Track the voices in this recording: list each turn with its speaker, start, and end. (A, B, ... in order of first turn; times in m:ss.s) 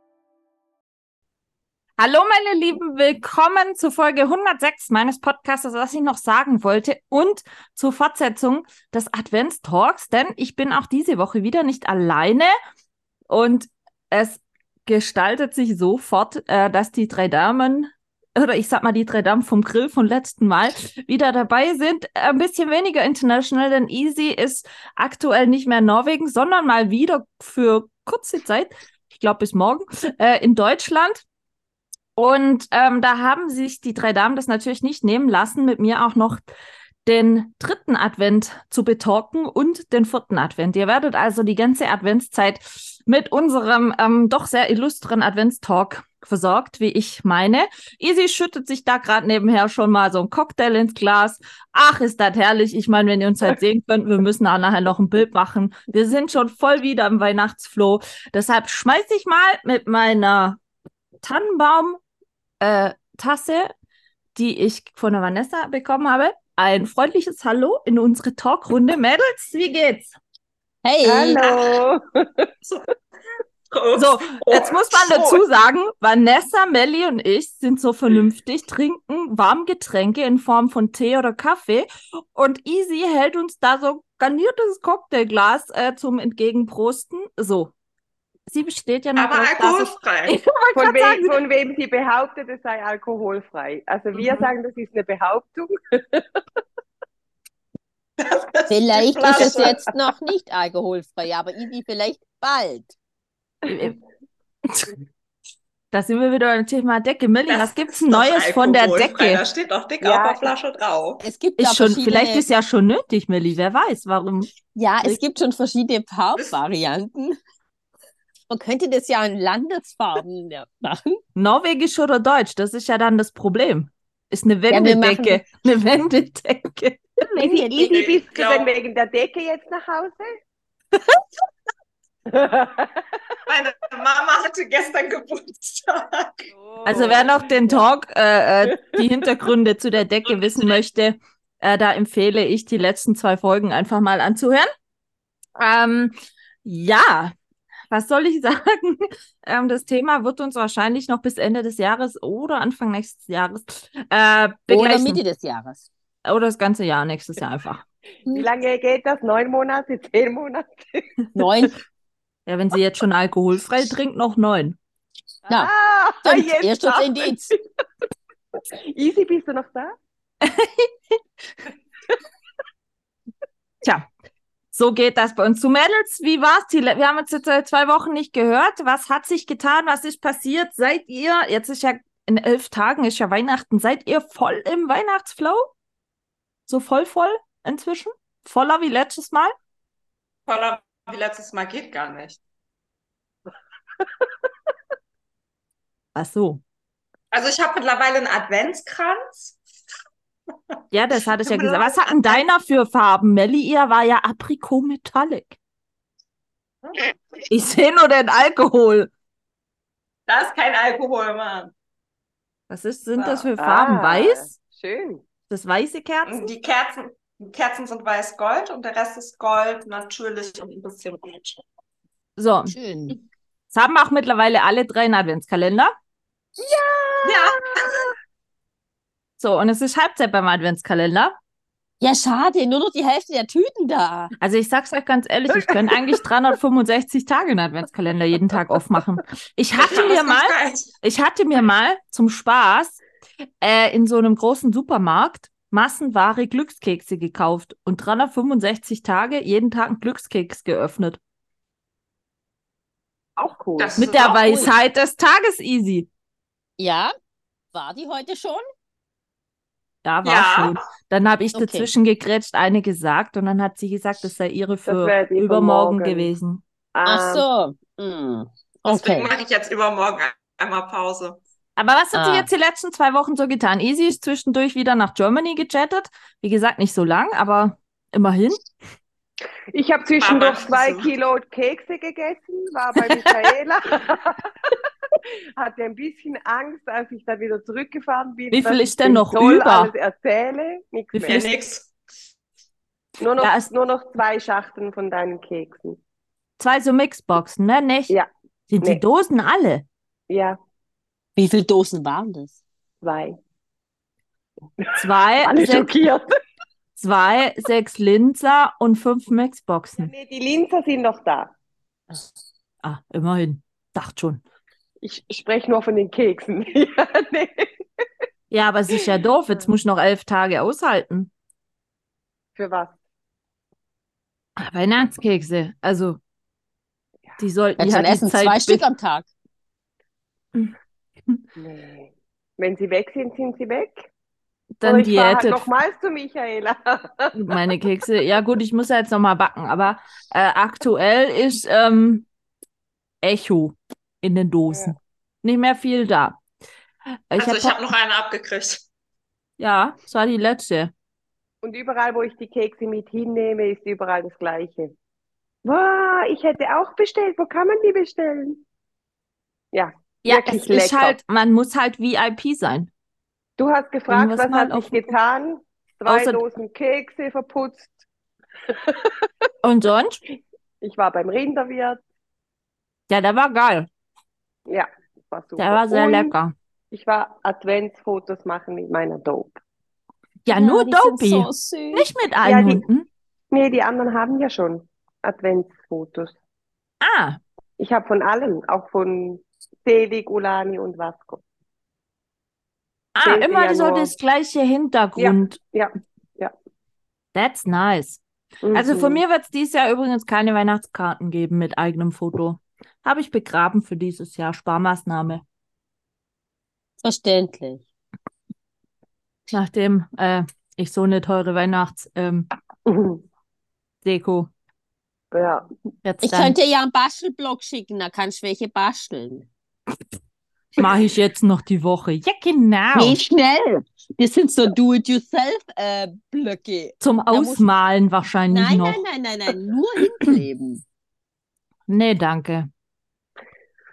0:02.0-0:12.5 A
0:13.3-0:31.2 A
0:32.2-0:36.4 A
0:37.1-1:00.6 A
1:01.2-1:02.0 A
1:02.6-1:03.7 A
1:04.4-1:10.1 A
1:10.8-1:11.4 B
1:11.0-1:12.5 C
1:11.4-1:11.8 D
1:12.6-1:12.9 D
1:13.7-1:15.1 D
1:14.0-1:27.7 A
1:15.1-1:15.4 C
1:28.5-1:31.4 A
1:29.2-1:30.4 D
1:30.8-1:36.4 C
1:38.2-1:39.8 D
1:38.7-1:42.9 B
1:39.4-1:39.9 C
1:43.7-1:44.0 A
1:45.9-1:49.4 A
1:47.5-1:51.2 D
1:50.0-1:50.5 C
1:51.2-1:52.4 B
1:51.6-1:54.5 A
1:54.8-1:57.4 B
1:58.5-2:01.2 B
2:01.4-2:07.1 A
2:04.7-2:05.4 B
2:07.3-2:10.3 C
2:07.3-2:08.1 B
2:07.9-2:08.7 D
2:12.3-2:13.1 C
2:13.5-2:16.5 D
2:16.5-2:17.9 C
2:16.8-2:24.7 A
2:25.6-2:27.3 A
2:27.9-2:35.2 A
2:34.7-2:35.9 B
2:36.2-2:37.8 A
2:38.3-2:41.1 C
2:41.4-2:41.8 B
2:42.5-2:44.8 A
2:45.5-2:47.6 C
2:46.2-2:47.5 B
2:48.8-2:50.0 C
2:50.4-2:50.9 A
2:53.8-2:54.1 A
2:54.7-3:05.7 A
3:06.7-3:09.5 A
3:10.5-3:12.4 D
3:16.2-3:16.6 A
3:17.3-3:19.6 D
3:20.9-3:25.6 A
3:21.4-3:22.4 D
3:27.5-3:29.1 A
3:30.3-3:31.7 D
3:32.7-3:34.5 A
3:33.2-3:33.5 D
3:33.6-3:35.2 C
3:35.5-3:36.5 A
3:36.3-3:41.6 D
3:42.4-3:42.8 A
3:42.7-3:43.2 B
3:43.7-3:45.9 A
3:46.6-3:48.0 C
3:47.2-3:48.1 D
3:49.4-3:51.4 A
3:52.0-3:54.3 B
3:54.4-4:03.0 A
3:59.8-4:00.9 D
4:03.6-4:11.2 A
4:13.4-4:14.1 C
4:13.8-4:14.7 D
4:14.0-4:16.1 A
4:14.3-4:14.6 B
4:16.8-4:17.1 B
4:17.7-4:18.6 B
4:20.0-4:26.6 A
4:20.2-4:20.9 D
4:21.6-4:21.9 B
4:24.9-4:26.3 C
4:27.0-4:27.4 C
4:27.0-4:29.3 B
4:28.9-4:31.4 D
4:31.8-4:38.6 A
4:32.2-4:32.5 B
4:39.7-4:51.4 C
4:40.2-4:41.1 D
4:48.5-4:49.9 A
4:51.1-4:51.5 A
4:51.3-4:51.9 D
4:53.2-4:56.0 C
4:53.4-4:53.7 A
4:56.6-4:58.2 A
4:58.7-4:59.9 A
5:00.3-5:00.6 C
5:01.4-5:02.6 B
5:03.0-5:03.4 C
5:04.8-5:06.3 C
5:05.0-5:05.9 A
5:07.0-5:10.1 A
5:10.0-5:11.5 C
5:12.8-5:14.4 A
5:15.0-5:17.7 C
5:18.5-5:21.3 A
5:22.6-5:23.0 C
5:24.6-5:26.2 A
5:27.4-5:28.8 A
5:27.8-5:29.3 B
5:31.6-5:34.1 C
5:34.8-5:35.7 A
5:34.8-5:37.6 C
5:37.4-5:42.3 A
5:43.2-5:46.4 A
5:44.7-5:45.0 C
5:47.3-5:47.8 A
5:47.4-5:48.8 D
5:49.6-5:50.9 A
5:51.6-5:54.9 C
5:55.6-5:58.6 C
5:59.7-6:01.2 C
6:00.2-6:02.9 A
6:03.6-6:08.0 C
6:04.1-6:05.1 A
6:06.1-6:06.4 A
6:08.7-6:09.3 C
6:09.6-6:10.2 A
6:10.8-6:12.0 C
6:13.1-6:13.9 A
6:14.7-6:16.3 C
6:15.6-6:16.5 A
6:16.9-6:19.6 C
6:20.4-6:23.1 A
6:20.5-6:22.1 B
6:22.4-6:22.8 C
6:23.5-6:26.4 C
6:27.0-6:27.4 A
6:27.8-6:31.4 C
6:33.2-6:35.6 A
6:33.2-6:34.1 C
6:35.2-6:36.5 C
6:37.4-6:45.4 A
6:38.6-6:39.2 C
6:47.0-6:47.8 B
6:49.5-6:52.5 A
6:52.9-6:53.2 C
6:54.0-6:54.5 A
6:55.3-6:55.7 C
6:56.0-6:56.6 A
6:56.2-6:59.5 B
7:00.8-7:03.2 A
7:02.9-7:07.6 B
7:07.0-7:09.0 A
7:08.5-7:10.8 B
7:11.9-7:12.7 A